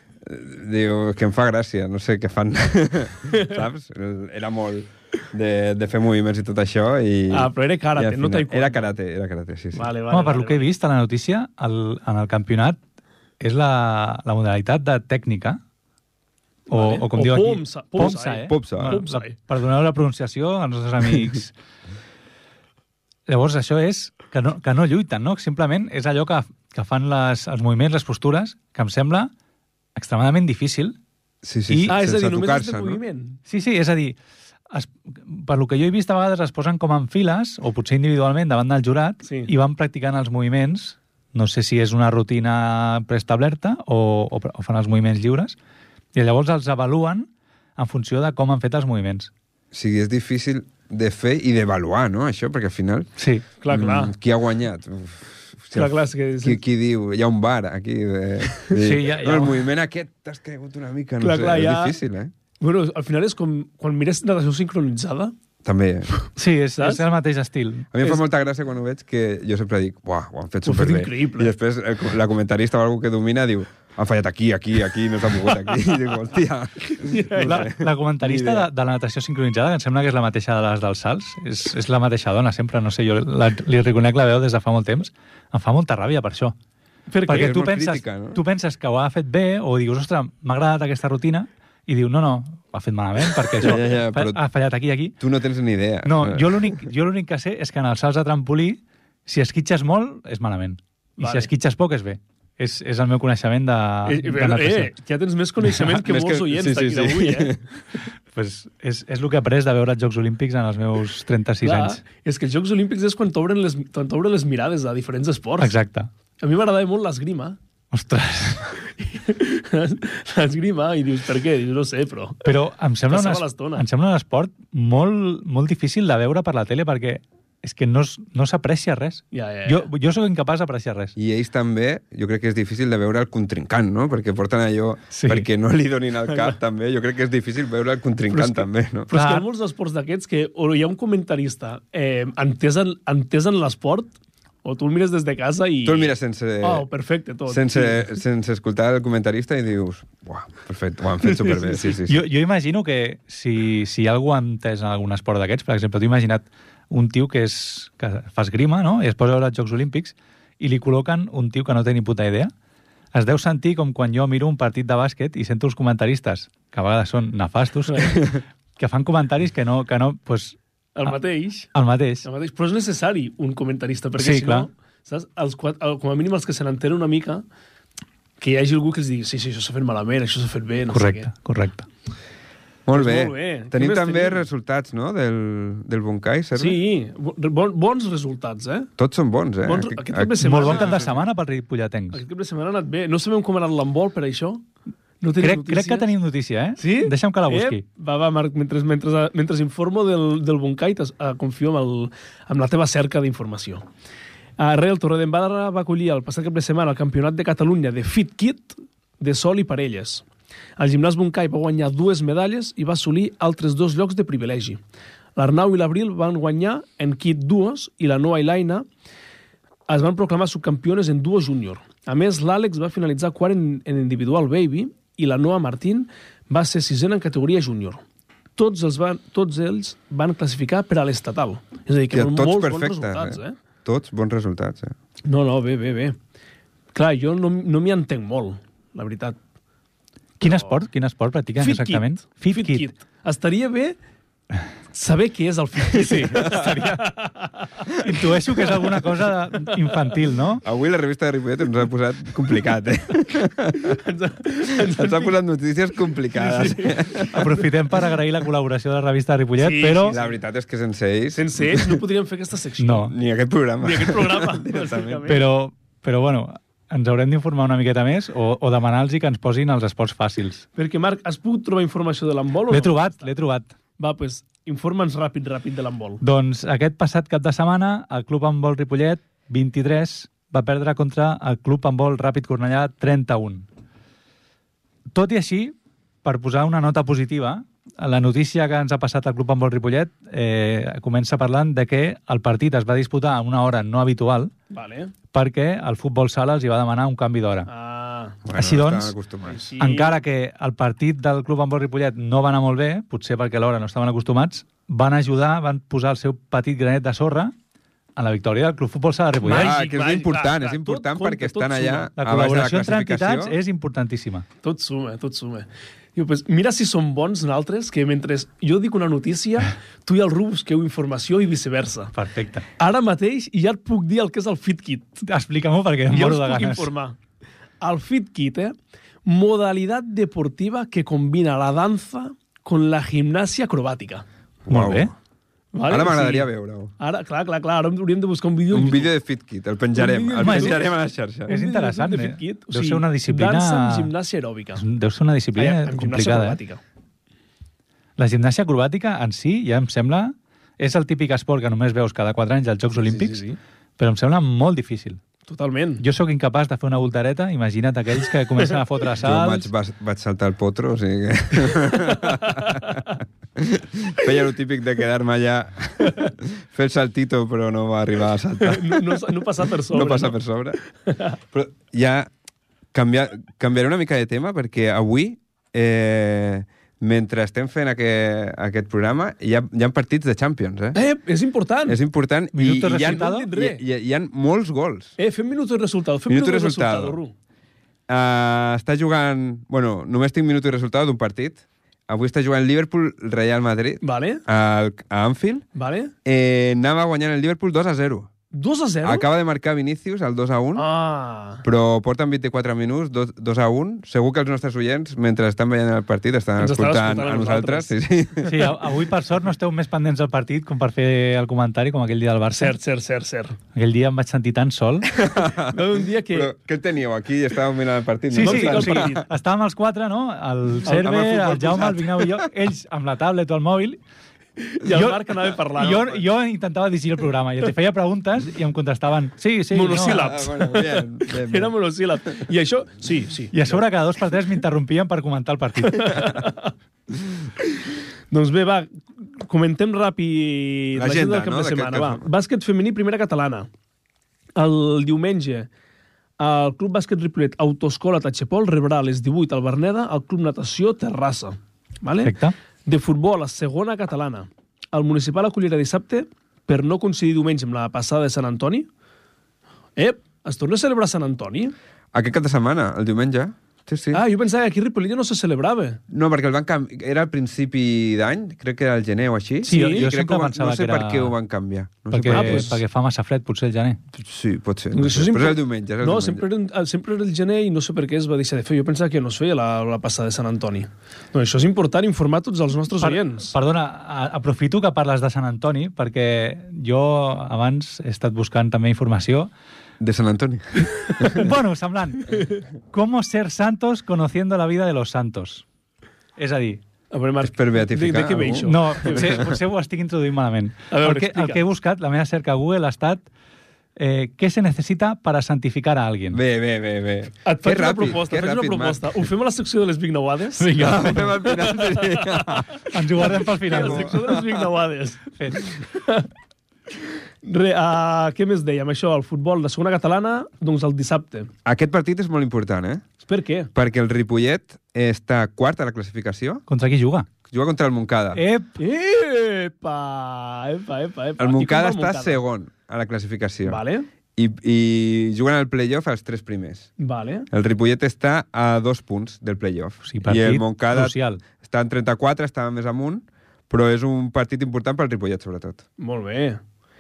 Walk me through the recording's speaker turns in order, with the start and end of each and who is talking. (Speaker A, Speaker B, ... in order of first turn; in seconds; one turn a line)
Speaker A: 0.2-9.9
Speaker B: 3.3-3.6
Speaker B: 7.3-8.9
Speaker B: 9.7-10.7
Speaker C: 10.1-12.8
Speaker C: 13.4-15.6
Speaker B: 16.7-19.4
Speaker C: 16.7-21.5
Speaker A: 18.0-19.0
Speaker C: 23.3-29.3
Speaker C: 29.9-31.0
Speaker A: 31.4-33.0
Speaker C: 31.7-31.9
Speaker B: 31.9-33.4
Speaker C: 33.5-34.2
Speaker C: 34.7-45.5
Speaker B: 39.2-39.5
Speaker C: 46.1-49.3
Speaker A: 49.7-53.1
Speaker C: 53.2-53.4
Speaker B: 53.6-54.1
Speaker A: 53.7-62.3
Speaker B: 55.7-56.6
Speaker C: 58.8-59.7
Speaker B: 61.2-62.0
Speaker B: 62.6-65.3
Speaker A: 65.6-66.1
Speaker C: 66.4-67.9
Speaker B: 66.8-67.0
Speaker A: 67.9-78.7
Speaker B: 70.6-71.5
Speaker B: 77.0-77.7
Speaker C: 77.4-86.5
Speaker B: 87.1-87.5
Speaker A: 87.3-88.4
Speaker C: 87.3-95.2
Speaker A: 93.6-94.4
Speaker A: 95.2-96.8
Speaker C: 96.0-104.9
Speaker B: 101.2-101.5
Speaker B: 104.0-107.5
Speaker A: 106.0-107.6
Speaker C: 108.3-112.0
Speaker B: 111.6-115.7
Speaker C: 115.6-116.1
Speaker B: 116.4-117.6
Speaker C: 117.9-118.7
Speaker B: 119.0-122.4
Speaker C: 122.4-131.1
Speaker B: 123.1-123.8
Speaker B: 129.3-129.9
Speaker A: 131.2-139.1
Speaker C: 135.1-135.5
Speaker B: 136.3-136.6
Speaker B: 138.3-148.2
Speaker C: 139.1-139.4
Speaker A: 145.8-146.8
Speaker A: 147.5-152.2
Speaker B: 151.2-151.9
Speaker C: 152.1-162.5
Speaker C: 163.1-171.2
Speaker B: 167.9-168.1
Speaker B: 170.9-171.7
Speaker C: 171.7-172.2
Speaker B: 172.2-177.4
Speaker C: 174.2-174.7
Speaker B: 178.4-181.3
Speaker C: 180.9-181.8
Speaker A: 182.8-186.8
Speaker B: 182.9-184.4
Speaker B: 186.5-188.9
Speaker A: 189.0-191.1
Speaker B: 189.6-191.2
Speaker C: 190.4-192.2
Speaker B: 192.1-194.6
Speaker B: 195.2-196.1
Speaker C: 195.4-197.8
Speaker B: 196.8-203.8
Speaker B: 204.6-210.2
Speaker B: 210.8-214.8
Speaker B: 215.3-218.9
Speaker B: 219.9-228.0
Speaker B: 228.6-233.6
Speaker A: 232.1-234.9
Speaker B: 235.2-236.2
Speaker B: 236.9-239.4
Speaker C: 240.4-242.9
Speaker B: 240.4-240.8
Speaker B: 241.6-244.0
Speaker B: 244.9-247.9
Speaker C: 246.3-247.1
Speaker C: 248.0-250.6
Speaker B: 248.5-249.1
Speaker B: 249.6-250.1
Speaker A: 250.6-254.0
Speaker B: 253.8-255.3
Speaker A: 254.8-257.4
Speaker B: 256.3-257.4
Speaker C: 257.3-260.2
Speaker B: 259.6-260.3
Speaker A: 260.1-262.0
Speaker B: 261.3-263.1
Speaker C: 262.8-263.1
Speaker A: 263.1-265.3
Speaker B: 263.8-265.4
Speaker C: 265.3-270.6
Speaker B: 270.8-273.3
Speaker C: 272.7-273.7
Speaker B: 274.0-276.2
Speaker C: 276.2-283.6
Speaker C: 285.1-294.5
Speaker B: 294.7-295.1
Speaker C: 295.3-297.7
Speaker B: 297.7-298.4
Speaker A: 298.4-299.6
Speaker C: 298.6-299.1
Speaker B: 299.5-300.1
Speaker C: 299.8-307.5
Speaker C: 308.2-309.7
Speaker B: 309.4-312.1
Speaker A: 309.4-313.6
Speaker C: 312.2-314.4
Speaker B: 314.6-322.1
Speaker C: 322.1-322.6
Speaker B: 322.8-325.2
Speaker C: 325.2-326.9
Speaker B: 326.1-327.2
Speaker B: 327.8-334.2
Speaker A: 334.7-335.1
Speaker C: 334.7-335.1
Speaker B: 335.7-339.1
Speaker A: 335.9-336.9
Speaker A: 338.7-341.5
Speaker B: 339.9-340.9
Speaker C: 340.4-340.8
Speaker B: 341.5-344.8
Speaker C: 341.5-344.1
Speaker C: 344.8-346.6
Speaker B: 345.5-346.8
Speaker C: 348.2-353.4
Speaker B: 352.9-353.6
Speaker C: 354.0-355.2
Speaker B: 355.5-356.0
Speaker C: 356.0-359.7
Speaker A: 359.2-370.8
Speaker B: 361.7-362.9
Speaker B: 368.6-370.4
Speaker B: 371.1-371.4
Speaker A: 371.5-372.3
Speaker A: 372.9-381.0
Speaker B: 380.9-382.0
Speaker A: 381.9-385.1
Speaker C: 382.5-383.5
Speaker B: 383.0-383.8
Speaker B: 385.2-387.3
Speaker A: 386.3-387.2
Speaker A: 388.1-395.6
Speaker B: 394.0-394.4
Speaker B: 395.7-396.1
Speaker A: 396.2-398.3
Speaker B: 398.5-399.2
Speaker A: 399.0-400.9
Speaker B: 400.7-401.6
Speaker A: 401.6-408.7
Speaker B: 406.6-407.9
Speaker C: 408.5-412.7
Speaker B: 412.6-413.6
Speaker C: 413.7-415.1
Speaker A: 415.1-419.2
Speaker B: 415.7-416.5
Speaker C: 418.3-424.0
Speaker B: 418.4-419.2
Speaker B: 420.9-421.9
Speaker A: 421.0-422.3
Speaker B: 424.6-426.2
Speaker C: 424.9-430.3
Speaker B: 429.7-433.8
Speaker A: 430.0-431.7
Speaker C: 433.5-436.3
Speaker B: 435.9-436.7
Speaker B: 438.3-443.7
Speaker A: 440.9-442.3
Speaker B: 444.6-445.7
Speaker B: 446.4-458.9
Speaker C: 452.2-452.5
Speaker B: 460.0-461.7
Speaker A: 462.1-464.2
Speaker B: 464.1-466.0
Speaker A: 466.1-472.8
Speaker B: 469.6-470.1
Speaker C: 469.7-471.3
Speaker C: 472.1-474.0
Speaker B: 472.3-472.8
Speaker A: 474.1-476.4
Speaker B: 474.9-483.5
Speaker C: 483.0-489.5
Speaker A: 490.0-491.4
Speaker C: 491.3-492.4
Speaker C: 492.9-495.6
Speaker C: 496.4-496.8
Speaker B: 497.1-499.4
Speaker A: 497.4-499.5
Speaker C: 498.6-503.2
Speaker B: 500.9-501.6
Speaker C: 504.0-506.4
Speaker A: 506.3-509.1
Speaker B: 507.4-510.7
Speaker C: 510.6-511.4
Speaker A: 510.7-512.8
Speaker C: 512.9-514.2
Speaker B: 513.6-516.3
Speaker A: 513.7-514.4
Speaker B: 517.4-521.5
Speaker A: 521.6-523.0
Speaker B: 523.2-523.7
Speaker A: 523.7-526.6
Speaker C: 526.7-527.3
Speaker A: 527.5-528.4
Speaker C: 528.3-528.7
Speaker B: 528.8-532.4
Speaker A: 531.4-533.8
Speaker B: 533.6-534.1
Speaker A: 534.4-536.9
Speaker B: 537.0-537.5
Speaker A: 537.5-545.8
Speaker C: 540.0-541.4
Speaker B: 546.0-546.6